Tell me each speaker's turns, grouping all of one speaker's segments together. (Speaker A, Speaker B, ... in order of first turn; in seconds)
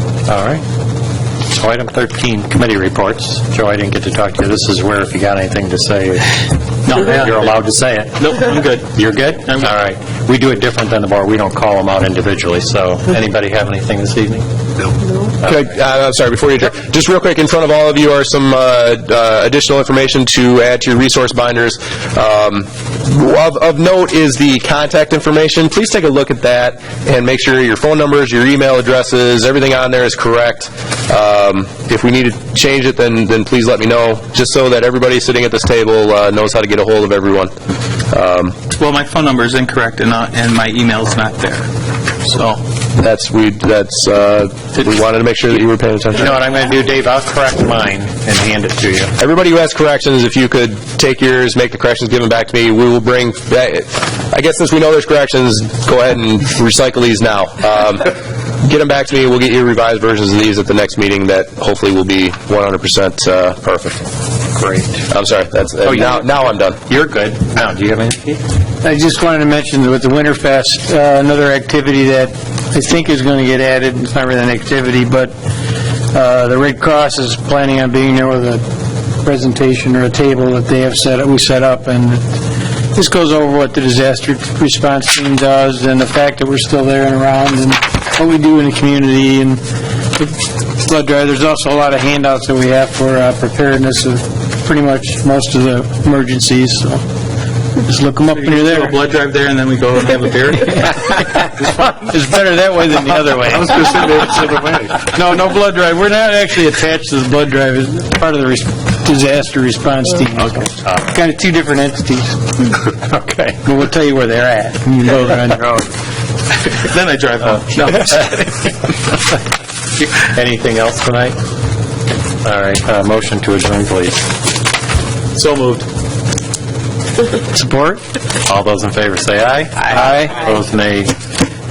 Speaker A: 0.3-0.6, 1.5-14.4, 46.1-49.1, 64.5-65.0, 65.8-68.4, 110.8-111.0, 120.1-121.4, 122.4-124.3, 128.4-131.2
Speaker B: 8.2-8.9, 38.7-41.7, 42.2-42.6, 98.3-101.2, 116.6-118.7, 125.3-125.9
Speaker C: 15.4-37.5, 38.1-38.5, 43.0-46.4, 49.2-64.0, 65.1-66.8
Speaker D: 68.8-75.3, 76.1-78.6, 79.2-82.2, 82.9-89.6, 90.2-97.0, 97.8-99.0, 101.2-115.9, 127.5-128.0, 129.9-130.3